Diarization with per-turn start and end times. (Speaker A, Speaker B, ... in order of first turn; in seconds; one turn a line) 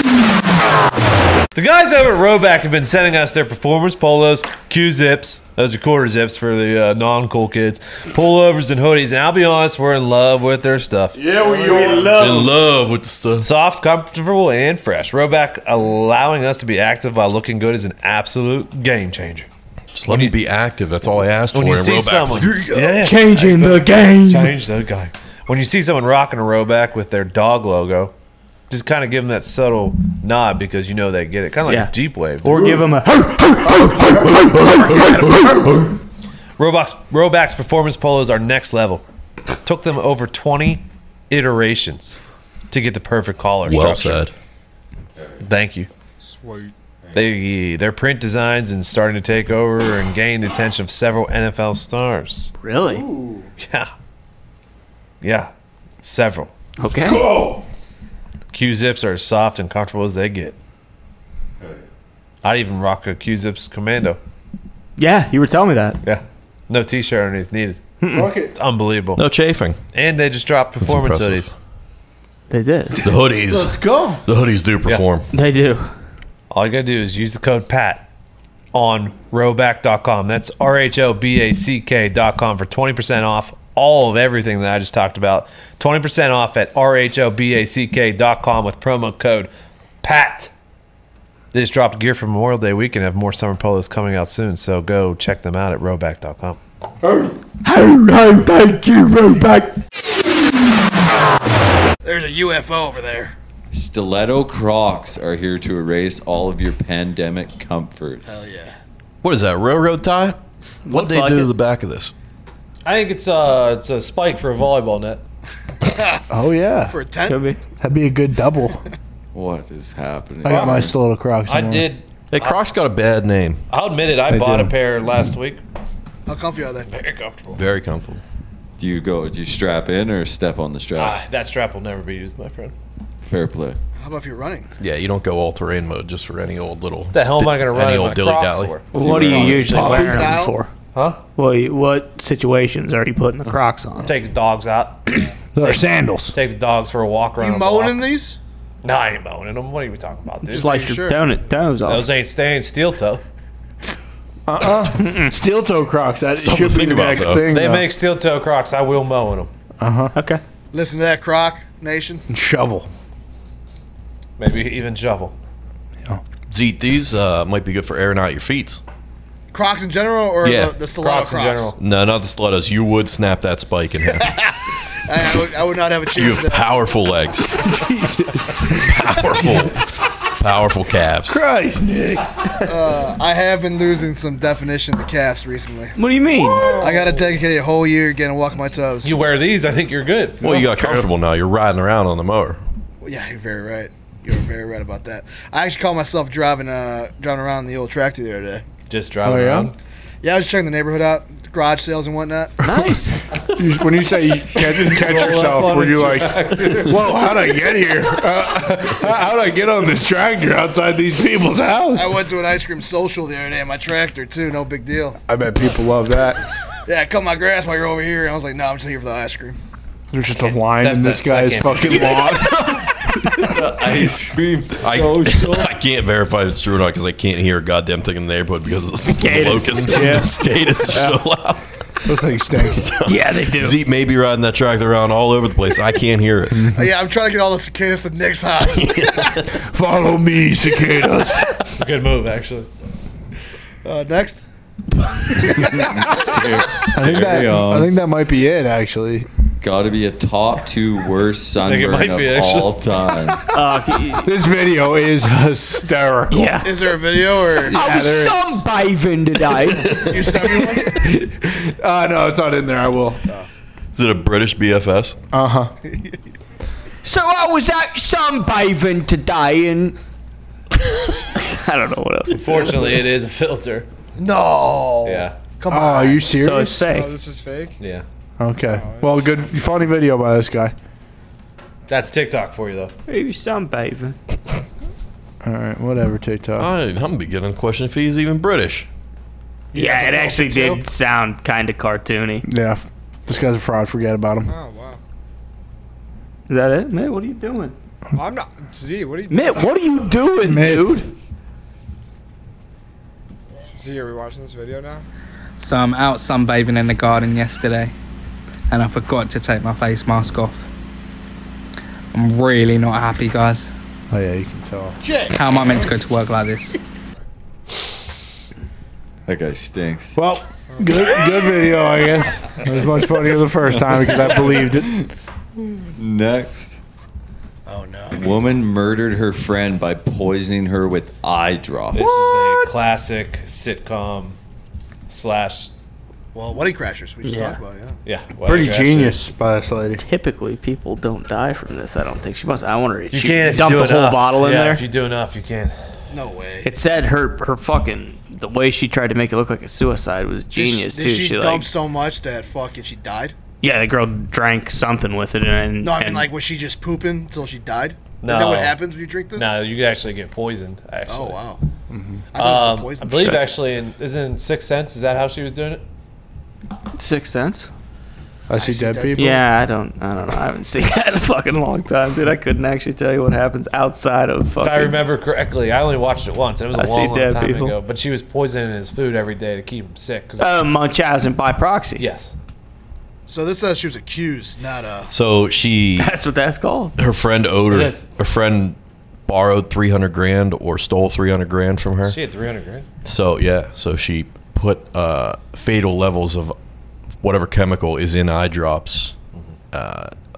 Speaker A: 1.5-12.2
Speaker B: 11.2-12.5
Speaker C: 12.0-13.5
Speaker A: 13.4-19.5
Speaker C: 19.9-23.1
Speaker A: 21.5-28.1
Speaker B: 22.8-24.6
Speaker A: 28.7-32.7
Speaker D: 31.7-35.4
Speaker C: 35.0-35.5
Speaker A: 36.6-39.0
Speaker A: 39.6-42.2
Speaker A: 42.7-44.2
Speaker C: 43.6-44.3
Speaker A: 45.4-45.9
Speaker A: 47.1-52.5
Speaker D: 52.6-53.0
Speaker A: 53.6-53.9
Speaker A: 55.2-55.5
Speaker A: 56.0-56.5
Speaker D: 56.8-57.3
Speaker B: 57.0-57.6
Speaker A: 58.5-60.5
Speaker E: 61.6-61.9
Speaker A: 62.4-64.2
Speaker D: 65.0-66.0
Speaker A: 66.0-67.8
Speaker D: 68.0-68.3
Speaker B: 68.1-68.5
Speaker A: 68.5-69.2
Speaker C: 69.2-69.8
Speaker A: 69.9-71.5
Speaker C: 70.8-71.5
Speaker D: 72.5-73.0
Speaker C: 73.0-75.2
Speaker B: 73.5-74.2
Speaker D: 75.3-75.9
Speaker A: 76.5-78.0
Speaker A: 78.7-89.5
Speaker A: 90.0-90.5
Speaker A: 91.5-96.6
Speaker B: 97.0-99.8
Speaker F: 102.0-103.3
Speaker E: 103.7-108.4
Speaker F: 108.2-108.7
Speaker C: 109.2-110.4
Speaker D: 110.8-111.5
Speaker C: 110.9-112.1
Speaker A: 112.8-115.2
Speaker F: 116.0-116.2
Speaker B: 116.3-117.0
Speaker F: 116.8-117.4
Speaker D: 117.2-117.6
Speaker B: 117.8-118.8
Speaker E: 119.3-120.9
Speaker B: 120.4-121.9
Speaker A: 120.5-120.9
Speaker A: 121.5-122.6
Speaker C: 122.3-123.6
Speaker A: 123.7-125.6
Speaker B: 124.3-124.7
Speaker F: 126.3-126.9
Speaker A: 126.9-127.6
Speaker C: 127.5-128.2
Speaker E: 128.8-131.2
Speaker A: 130.9-132.7
Speaker E: 133.2-133.8
Speaker F: 134.0-134.7
Speaker C: 134.8-140.0
Speaker A: 137.1-140.2
Speaker E: 138.9-140.0
Speaker D: 138.9-140.7
Speaker F: 139.6-140.6
Speaker A: 140.9-141.2
Speaker D: 141.3-144.1
Speaker A: 144.0-145.2
Speaker B: 145.5-146.4
Speaker A: 146.3-148.0
Speaker F: 147.4-148.4
Speaker A: 148.8-150.8
Speaker F: 150.5-151.3
Speaker D: 150.5-152.1
Speaker A: 151.8-153.2
Speaker B: 154.5-157.9
Speaker D: 155.0-155.3
Speaker C: 156.3-157.5
Speaker A: 157.5-159.5
Speaker B: 159.8-160.1
Speaker D: 160.1-160.4
Speaker F: 160.7-162.2
Speaker B: 162.3-162.9
Speaker A: 164.4-165.3
Speaker C: 166.5-168.8
Speaker F: 169.5-171.7
Speaker C: 170.4-170.8
Speaker A: 171.0-171.8
Speaker C: 171.8-174.4
Speaker F: 175.1-176.8
Speaker C: 176.1-177.6
Speaker B: 177.5-179.7
Speaker C: 178.7-179.8
Speaker C: 180.4-181.4
Speaker B: 181.3-182.8
Speaker F: 182.7-185.9
Speaker D: 185.9-186.7
Speaker F: 186.7-189.2
Speaker A: 189.0-190.4
Speaker C: 190.4-192.6
Speaker D: 190.4-191.1
Speaker F: 193.0-198.6
Speaker A: 198.9-199.7
Speaker B: 199.2-199.7
Speaker F: 200.2-202.6
Speaker D: 202.6-203.2
Speaker B: 202.7-203.0
Speaker B: 203.5-212.3
Speaker A: 204.7-207.1
Speaker F: 211.9-215.2
Speaker B: 215.3-216.4
Speaker F: 216.8-219.6
Speaker B: 220.1-223.5
Speaker A: 220.6-222.4
Speaker E: 223.5-225.7
Speaker C: 224.8-231.6
Speaker D: 229.0-230.2
Speaker B: 229.9-230.3
Speaker B: 230.9-231.2
Speaker B: 232.1-232.9
Speaker C: 232.7-236.7
Speaker D: 233.1-233.8
Speaker B: 236.5-236.9
Speaker F: 236.7-239.4
Speaker C: 238.8-239.3
Speaker B: 239.5-241.6
Speaker A: 241.8-242.7
Speaker F: 243.8-244.4
Speaker F: 245.4-245.9
Speaker E: 245.6-247.9
Speaker B: 246.2-249.3
Speaker E: 249.6-253.5
Speaker A: 251.6-252.8
Speaker D: 253.5-254.3
Speaker B: 254.2-256.7
Speaker D: 256.3-256.7
Speaker F: 256.6-257.8
Speaker B: 257.6-258.6
Speaker D: 257.7-260.0
Speaker C: 259.8-260.3
Speaker F: 260.0-260.9
Speaker B: 260.6-263.2
Speaker C: 263.9-265.1
Speaker B: 265.3-265.7
Speaker F: 265.9-266.1
Speaker D: 267.0-270.0
Speaker D: 271.3-273.0
Speaker A: 272.3-273.9
Speaker F: 274.1-276.3
Speaker A: 275.0-275.4
Speaker B: 275.7-276.8
Speaker D: 276.4-277.1
Speaker G: 276.8-277.8
Speaker A: 277.8-278.0
Speaker B: 278.4-280.7
Speaker G: 278.7-279.3
Speaker A: 281.9-282.9
Speaker D: 283.1-284.2
Speaker B: 285.4-286.7
Speaker C: 286.6-288.9
Speaker F: 289.7-290.8
Speaker D: 289.7-292.4
Speaker B: 292.4-294.5
Speaker G: 294.4-295.0
Speaker D: 296.5-297.7
Speaker G: 298.1-299.7
Speaker D: 299.3-301.1
Speaker B: 300.4-301.0
Speaker G: 303.7-305.0
Speaker H: 305.6-307.9
Speaker H: 308.7-310.6
Speaker H: 312.1-313.7
Speaker B: 314.1-315.0
Speaker F: 315.0-315.4
Speaker H: 315.3-316.7
Speaker E: 319.2-320.2
Speaker B: 320.1-325.0
Speaker E: 323.7-325.1
Speaker E: 325.7-326.8
Speaker F: 327.6-328.4
Speaker E: 328.1-332.1
Speaker A: 331.9-334.4
Speaker A: 335.1-335.7
Speaker F: 336.3-338.0
Speaker D: 337.2-337.6
Speaker A: 338.0-339.2
Speaker B: 338.4-340.0
Speaker D: 340.0-344.8
Speaker A: 343.1-345.8
Speaker F: 346.1-346.7
Speaker D: 346.6-351.7
Speaker F: 350.5-353.3
Speaker D: 353.6-356.3
Speaker F: 355.8-359.6
Speaker A: 358.2-358.8
Speaker A: 359.3-361.4
Speaker F: 361.1-361.6
Speaker B: 361.9-362.2
Speaker F: 362.3-363.4
Speaker A: 362.4-365.8
Speaker D: 363.1-363.5
Speaker D: 366.9-367.7
Speaker B: 368.5-369.4
Speaker F: 368.6-369.4
Speaker D: 369.1-375.0
Speaker A: 374.6-380.6
Speaker D: 376.7-377.7
Speaker D: 380.4-382.0
Speaker A: 382.0-382.3
Speaker F: 383.3-385.1
Speaker C: 385.1-386.1
Speaker D: 386.0-387.0
Speaker C: 387.0-388.8
Speaker C: 389.3-392.2
Speaker A: 392.1-392.9
Speaker C: 393.0-396.5
Speaker C: 397.2-399.1
Speaker C: 399.7-400.1